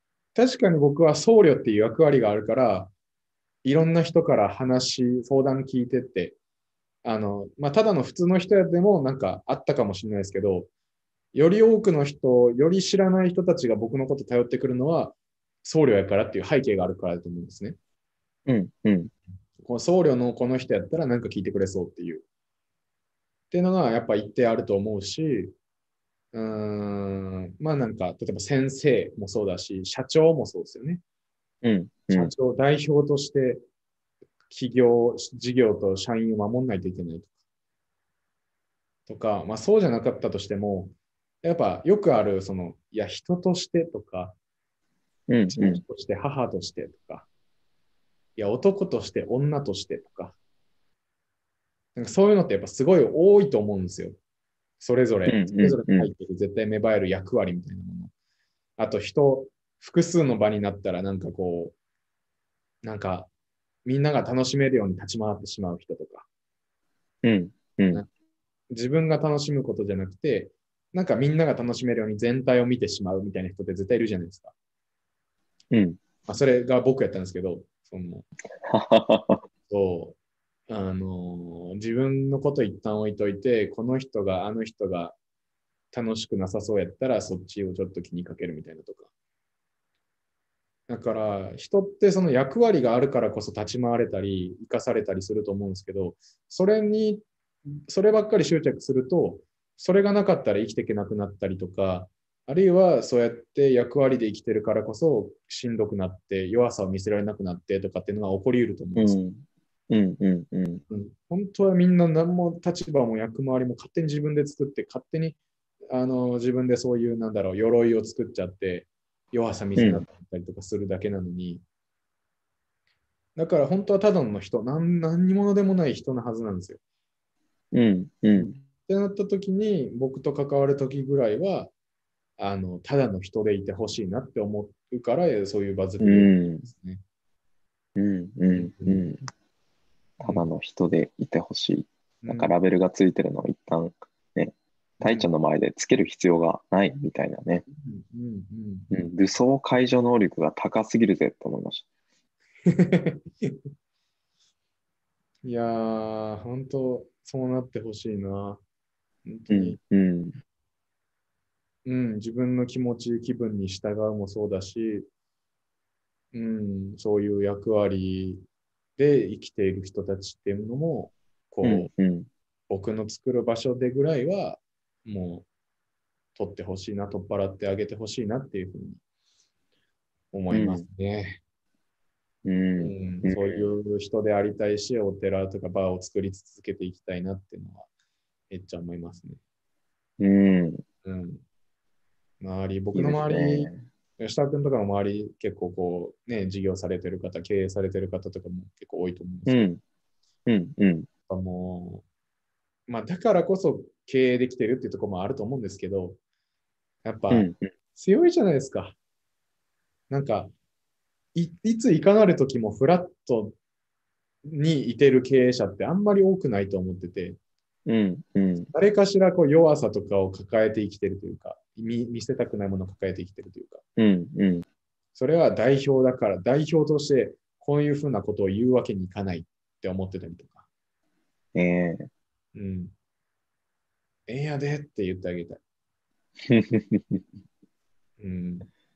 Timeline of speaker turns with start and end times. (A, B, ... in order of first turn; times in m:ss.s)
0:00.4-0:02.9 A
0:03.6-0:06.4 A
0:07.0-0:10.7 A
0:11.3-0:17.8 A
0:18.5-0:19.1 B
0:19.6-0:22.2 A
0:23.5-0:25.5 A
0:26.3-0:31.0 A
0:31.6-0:32.3 B
0:32.1-0:33.6 A
0:34.5-0:37.3 A
0:39.1-0:44.4 A
0:45.3-0:45.8 B
0:45.5-0:47.3 A
0:48.4-0:50.4 A
0:52.0-0:54.2 A
0:54.8-0:58.1 A
0:55.3-0:56.1 B
0:58.8-1:01.8 A
1:02.8-1:03.3 A
1:03.8-1:06.3 A
1:07.2-1:08.0 B
1:08.7-1:14.5 A
1:15.7-1:16.0 B
1:16.3-1:18.3 A
1:18.7-1:19.4 B
1:19.7-1:20.2 A
1:20.7-1:25.2 A
1:25.9-1:29.1 A
1:30.9-1:37.3 A
1:37.9-1:49.2 A
1:49.0-1:50.8 B
1:50.9-1:55.4 A
1:55.9-2:01.6 A
1:59.8-2:00.0 B
2:03.4-2:06.8 A
2:07.7-2:08.6 B
2:08.4-2:11.7 A
2:12.4-2:17.0 A
2:16.0-2:16.6 B
2:18.0-2:19.2 B
2:18.5-2:19.1 A
2:20.2-2:27.6 B
2:22.2-2:22.5 A
2:25.0-2:25.3 A
2:27.7-2:28.9 A
2:28.9-2:31.9 B
2:32.7-2:33.6 A
2:35.4-2:38.6 A
2:39.2-2:39.8 A
2:39.5-2:40.4 B
2:41.8-2:45.1 A
2:46.3-2:48.4 A
2:49.0-2:51.9 A
2:51.6-2:52.3 B
2:52.7-2:55.5 A
2:56.4-2:59.0 A
3:00.3-3:01.4 A
3:00.5-3:00.9 B
3:02.4-3:03.7 B
3:02.8-3:07.9 A
3:08.5-3:09.4 A
3:10.2-3:10.8 B
3:11.0-3:11.4 A
3:12.4-3:19.7 A
3:12.9-3:13.9 B
3:19.5-3:19.8 B
3:20.5-3:21.1 B
3:21.3-3:22.0 A
3:22.9-3:26.2 A
3:27.0-3:29.0 A
3:27.3-3:27.7 B
3:30.1-3:30.5 A
3:31.4-3:33.6 A
3:34.4-3:37.4 A
3:37.9-3:38.7 B
3:38.7-3:43.8 A
3:44.0-3:44.6 B
3:45.2-3:50.7 A
3:51.6-3:52.1 B
3:52.5-3:52.9 A
3:54.3-3:55.6 A
3:56.5-3:57.2 B
3:58.2-3:58.7 A